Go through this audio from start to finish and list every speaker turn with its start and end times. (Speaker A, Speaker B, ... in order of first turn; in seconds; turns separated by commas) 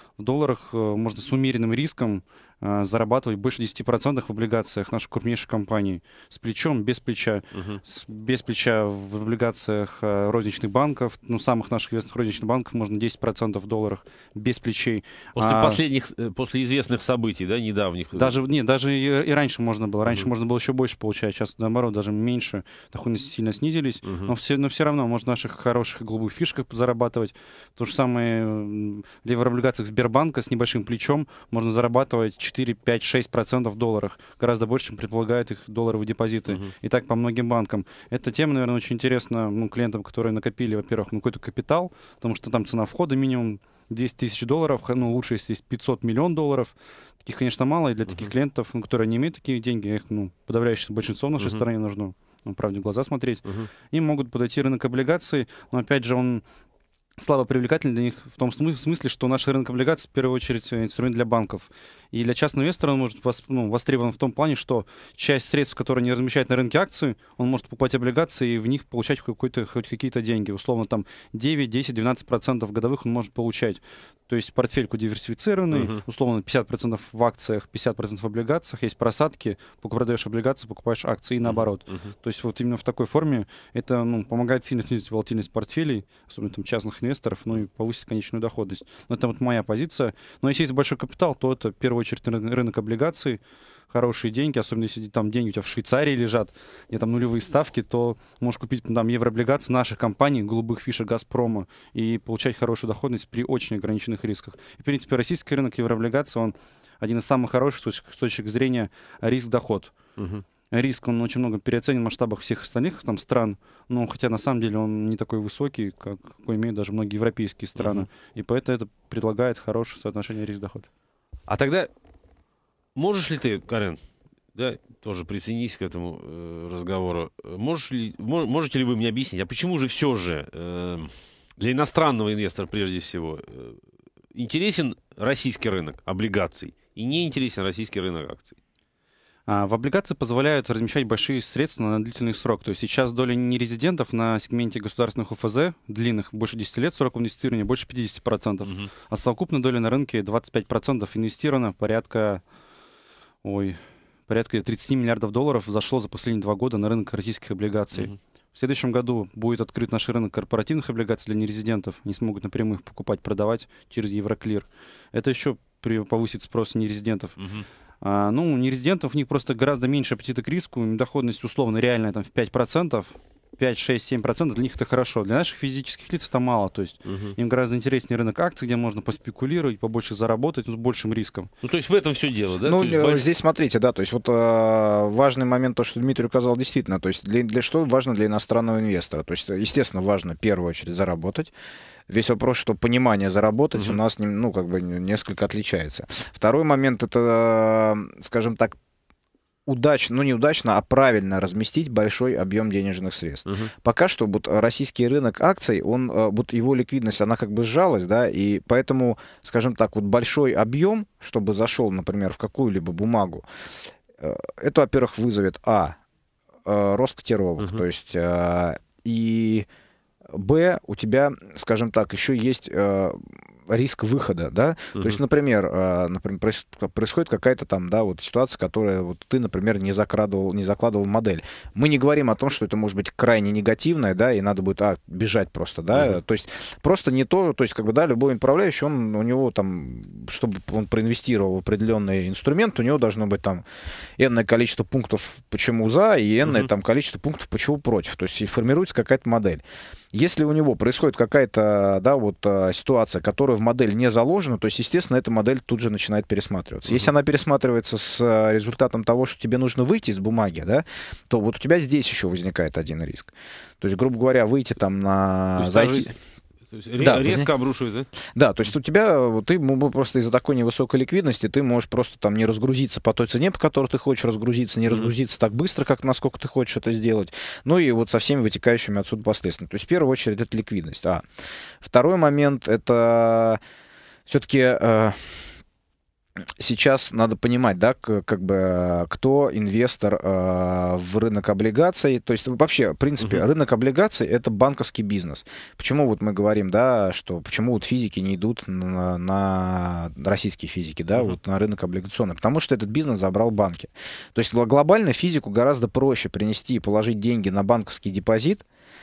Speaker A: 0.2-15.8, Speaker B: 7.5-7.8, Speaker B: 15.3-18.3, Speaker A: 18.1-46.7, Speaker B: 24.0-24.3, Speaker A: 47.2-56.4, Speaker B: 51.4-51.6, Speaker A: 57.2-93.4, Speaker B: 75.7-76.0, Speaker B: 81.4-82.1, Speaker A: 93.9-109.9, Speaker B: 110.2-110.4, Speaker A: 110.7-120.9, Speaker B: 117.8-118.1, Speaker B: 121.5-121.9, Speaker B: 123.0-124.0, Speaker B: 124.5-133.8, Speaker B: 134.3-138.5, Speaker A: 139.5-152.4, Speaker A: 153.4-167.4, Speaker B: 167.4-167.7, Speaker A: 168.0-181.5, Speaker B: 177.0-177.3, Speaker B: 181.6-183.2, Speaker C: 182.6-191.5, Speaker C: 192.1-198.8, Speaker C: 199.7-213.4, Speaker B: 203.4-203.7, Speaker C: 214.2-216.0, Speaker C: 216.6-219.7, Speaker C: 220.3-243.6, Speaker B: 224.9-225.2, Speaker B: 235.9-236.2, Speaker C: 244.2-249.6, Speaker C: 250.1-266.1, Speaker B: 265.6-266.1, Speaker B: 266.7-268.1, Speaker C: 267.0-267.5, Speaker C: 268.3-281.2, Speaker C: 281.8-283.6, Speaker C: 284.3-285.5, Speaker C: 286.6-308.6